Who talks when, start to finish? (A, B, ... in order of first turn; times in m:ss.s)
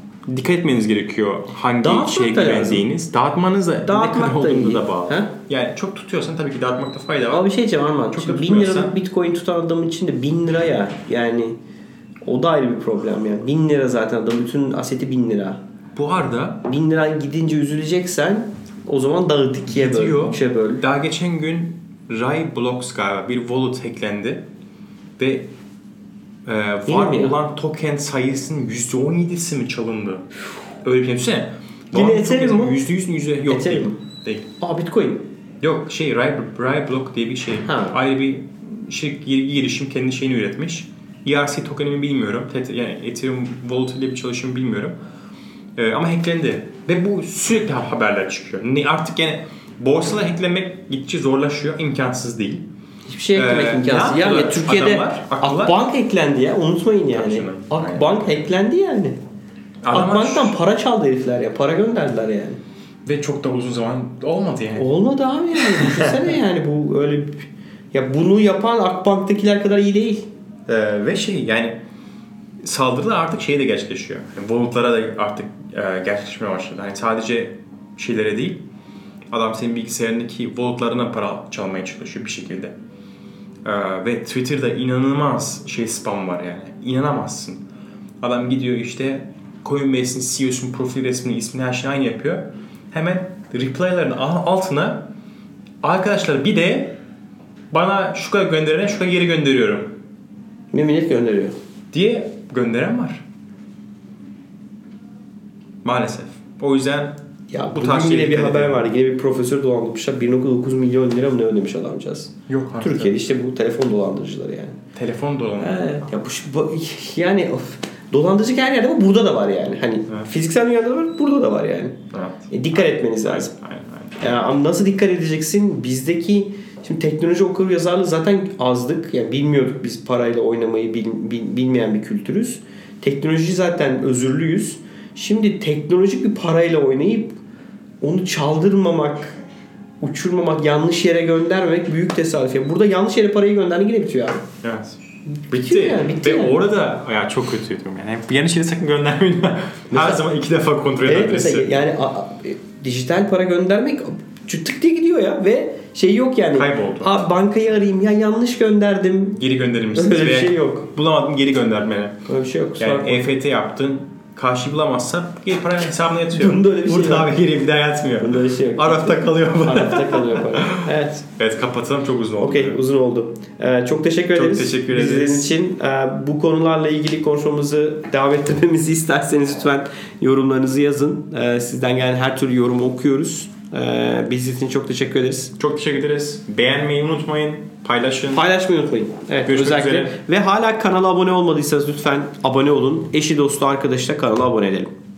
0:00.3-0:07.5 A
0:01.8-0:02.9 B
0:03.8-0:05.3 B
0:07.3-0:11.6 B
0:08.1-0:08.9 A
0:12.2-0:15.6 B
0:16.0-0:16.6 A
0:16.6-0:20.8 B
0:19.7-0:24.4 A
0:25.2-0:25.5 A
0:26.4-0:30.3 A
0:26.9-0:27.4 B
0:30.8-0:34.5 A
0:31.9-0:32.8 B
0:33.5-0:34.0 B
0:34.6-0:35.2 B
0:35.6-0:45.0 A
0:37.6-0:38.0 B
0:45.8-0:52.7 A
0:53.0-0:59.2 B
0:53.3-0:55.8 A
0:57.1-0:58.4 A
0:59.8-1:00.6 A
0:59.9-1:02.6 B
1:03.0-1:04.9 A
1:04.8-1:10.3 B
1:05.6-1:06.2 A
1:10.7-1:11.7 A
1:12.6-1:18.6 A
1:19.3-1:22.7 A
1:23.6-1:27.6 A
1:28.2-1:35.1 A
1:35.8-1:37.0 A
1:37.7-1:40.0 A
1:40.7-1:41.5 B
1:41.9-1:43.2 A
1:45.8-1:47.2 A
1:47.5-1:54.8 B
1:47.7-1:48.8 A
1:52.5-1:53.2 A
1:54.9-1:55.8 A
1:55.6-2:02.0 B
2:02.1-2:02.5 A
2:02.5-2:03.5 B
2:03.1-2:04.2 A
2:04.2-2:17.4 B
2:18.0-2:19.4 B
2:20.0-2:24.4 B
2:24.6-2:25.0 A
2:25.3-2:26.6 B
2:25.5-2:31.8 A
2:29.9-2:30.2 B
2:31.0-2:40.9 B
2:36.5-2:37.1 A
2:39.4-2:42.2 A
2:42.3-2:43.3 B
2:42.8-2:52.8 A
2:46.3-2:47.4 B
2:48.2-2:51.2 B
2:52.4-3:05.5 B
2:54.3-2:55.5 A
3:05.6-3:08.4 A
3:08.3-3:14.9 B
3:09.5-3:10.1 A